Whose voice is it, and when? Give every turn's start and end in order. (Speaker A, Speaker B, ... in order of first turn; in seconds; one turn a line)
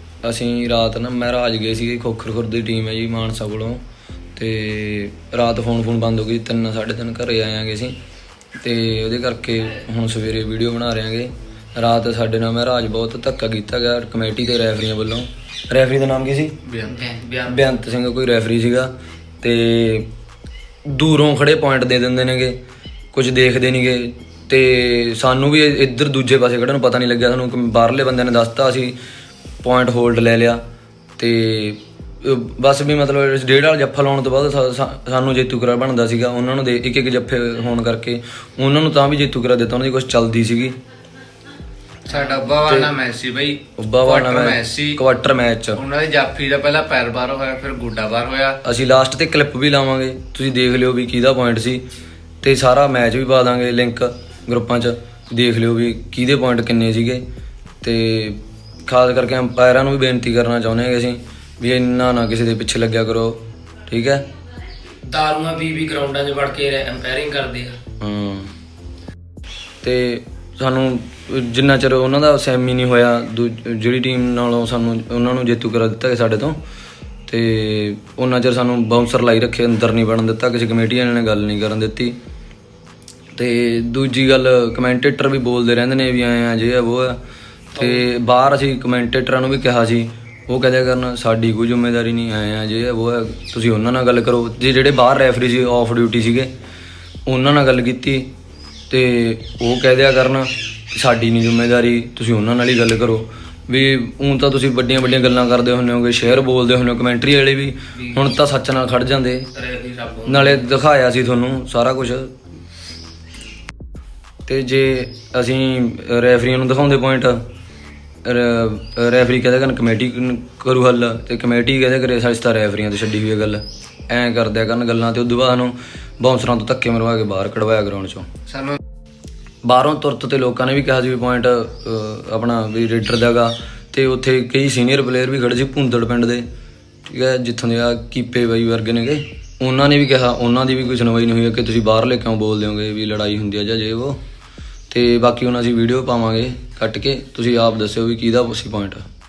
Speaker A: 0.2-3.8
Speaker A: 4.3-8.0
Speaker A: 8.6-16.6
Speaker B: 16.7-17.0
Speaker C: 16.8-17.6
Speaker A: 17.3-20.1
Speaker A: 20.9-22.6
Speaker A: 23.1-28.9
Speaker A: 29.6-30.6
Speaker A: 31.2-40.7
Speaker B: 42.0-45.0
Speaker A: 42.6-42.9
Speaker A: 43.8-45.8
Speaker B: 45.8-48.6
Speaker A: 48.6-51.8
Speaker A: 52.4-57.2
Speaker A: 57.8-64.2
Speaker C: 65.0-67.8
Speaker A: 68.0-68.5
Speaker A: 69.8-76.6
Speaker A: 77.3-82.2
Speaker A: 83.3-87.2
Speaker A: 87.7-96.5
Speaker A: 97.3-98.3
Speaker A: 98.9-109.5
Speaker C: 109.6-110.3
Speaker A: 110.2-112.3
Speaker A: 114.5-117.4
Speaker A: 118.2-128.3
Speaker B: 128.5-128.8
Speaker A: 129.6-136.4
Speaker A: 137.1-144.2
Speaker A: 144.9-149.0